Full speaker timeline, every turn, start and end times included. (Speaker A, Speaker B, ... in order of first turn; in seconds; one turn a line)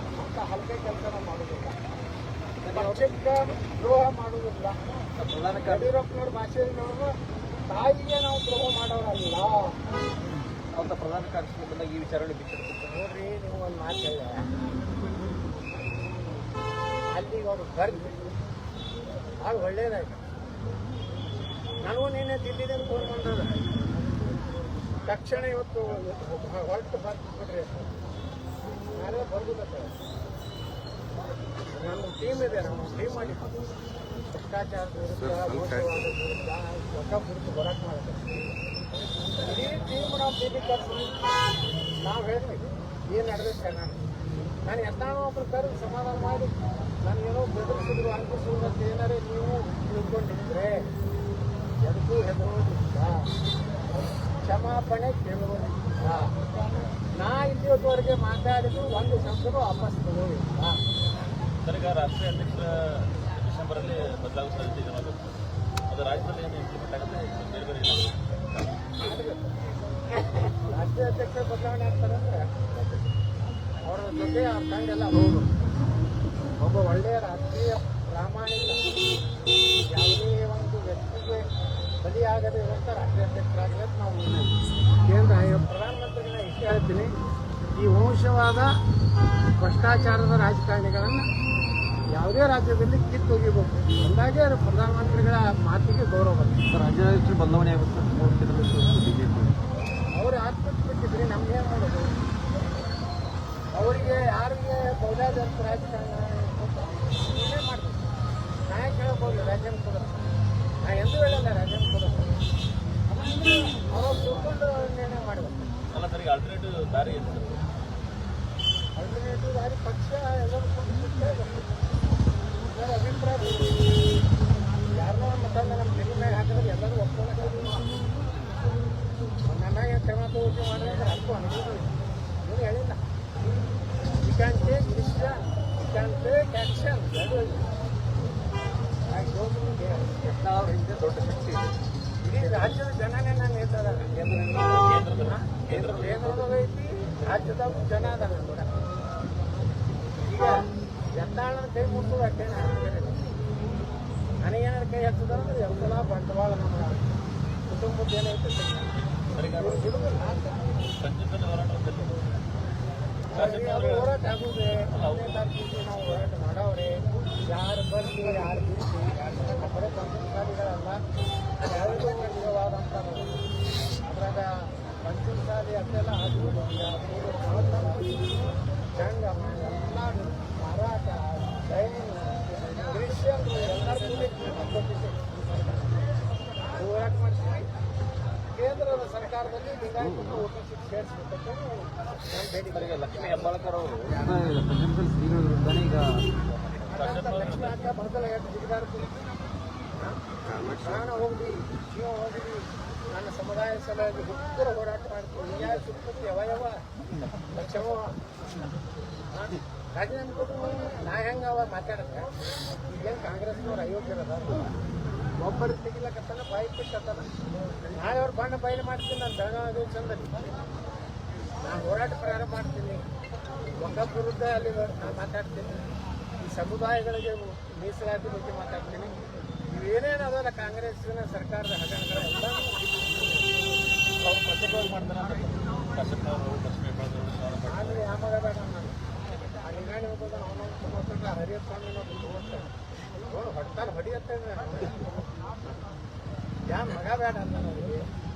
Speaker A: 0.2-1.8
Speaker B: 2.6-3.1
Speaker A: 2.7-4.8
Speaker B: 5.2-5.9
Speaker A: 5.6-7.2
Speaker A: 7.7-9.7
Speaker B: 10.7-13.0
Speaker A: 12.9-14.4
Speaker A: 17.1-18.2
Speaker A: 19.4-20.2
Speaker A: 21.9-23.6
Speaker A: 25.1-27.9
Speaker A: 28.9-29.9
Speaker A: 31.7-33.6
Speaker A: 34.3-38.5
Speaker A: 39.4-41.2
Speaker A: 42.0-44.0
Speaker A: 44.7-50.8
Speaker A: 51.9-53.2
Speaker A: 54.4-56.4
Speaker A: 57.1-60.8
Speaker C: 61.6-65.2
Speaker C: 65.9-68.9
Speaker A: 69.0-69.6
Speaker A: 70.5-72.5
Speaker A: 73.8-75.5
Speaker A: 76.6-78.9
Speaker A: 79.9-81.5
Speaker A: 82.0-87.1
Speaker A: 87.8-88.7
Speaker A: 89.6-91.2
Speaker A: 92.1-96.6
Speaker B: 96.7-99.6
Speaker A: 100.1-102.1
Speaker A: 103.7-108.0
Speaker A: 108.7-110.2
Speaker A: 110.8-112.4
Speaker A: 113.1-115.6
Speaker C: 115.9-117.7
Speaker A: 119.0-121.7
Speaker A: 122.7-123.8
Speaker A: 125.0-127.9
Speaker A: 129.5-133.0
Speaker A: 134.2-137.6
Speaker B: 139.1-141.8
Speaker A: 142.2-144.6
Speaker B: 142.4-142.7
Speaker B: 144.2-145.1
Speaker C: 144.7-146.3
Speaker A: 145.2-148.7
Speaker B: 145.7-146.5
Speaker A: 150.2-150.7
Speaker A: 151.2-153.2
Speaker A: 154.4-157.2
Speaker A: 157.7-158.9
Speaker C: 159.3-159.9
Speaker A: 159.6-160.6
Speaker C: 161.0-162.4
Speaker C: 163.3-164.2
Speaker A: 163.3-171.0
Speaker C: 164.9-165.4
Speaker A: 171.6-173.5
Speaker A: 174.0-178.3
Speaker A: 178.9-185.9
Speaker A: 186.7-187.7
Speaker A: 188.5-193.4
Speaker B: 190.0-190.4
Speaker B: 192.7-196.2
Speaker C: 196.5-197.8
Speaker A: 196.9-199.2
Speaker A: 200.0-206.8
Speaker A: 207.5-208.2
Speaker A: 209.3-212.2
Speaker A: 212.9-214.7
Speaker A: 215.4-217.3
Speaker A: 217.9-220.4
Speaker A: 221.6-223.0
Speaker A: 223.8-225.8
Speaker A: 226.4-229.1
Speaker A: 229.7-233.4
Speaker C: 234.2-238.1
Speaker A: 237.7-239.0
Speaker A: 239.6-242.7
Speaker A: 243.2-245.1
Speaker A: 246.7-248.0